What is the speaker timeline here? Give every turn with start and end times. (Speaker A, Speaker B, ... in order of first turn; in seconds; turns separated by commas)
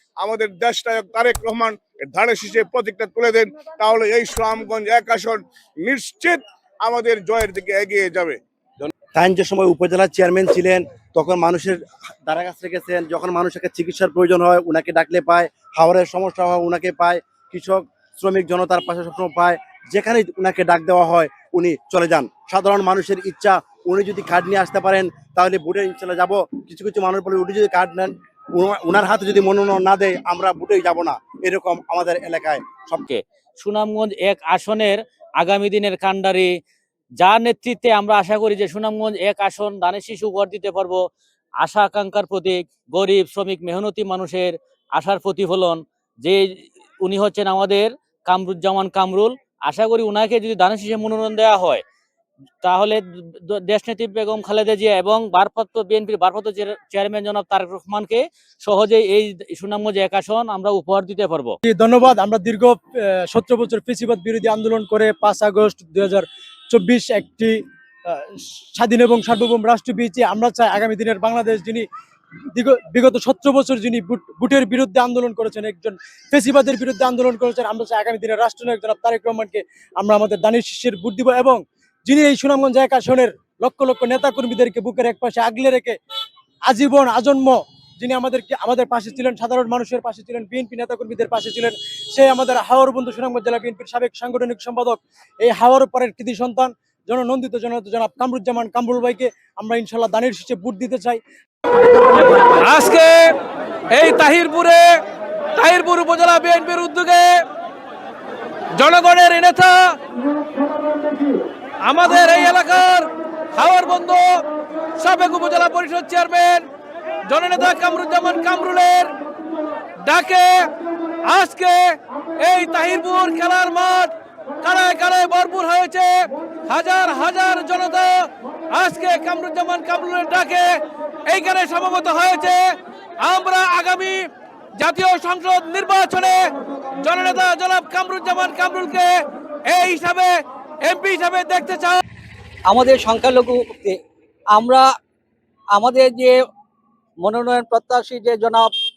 Speaker A: 0.3-5.4, Speaker A: 5.9-6.3, Speaker A: 6.9-8.3, Speaker B: 9.1-33.0, Speaker C: 33.0-36.5, Speaker C: 37.2-41.0, Speaker C: 41.6-51.8, Speaker C: 52.6-61.5, Speaker D: 61.6-71.8, Speaker D: 72.5-85.9, Speaker D: 86.7-101.2, Speaker E: 102.6-103.3, Speaker E: 103.9-105.0, Speaker E: 105.6-107.3, Speaker E: 108.8-109.9, Speaker E: 111.8-114.4, Speaker E: 115.0-116.7, Speaker E: 117.3-119.1, Speaker E: 120.0-120.7, Speaker E: 121.2-134.2, Speaker E: 134.8-136.5, Speaker E: 137.0-142.0, Speaker F: 142.7-144.0, Speaker F: 144.5-144.8, Speaker F: 145.7-146.3, Speaker F: 147.2-148.7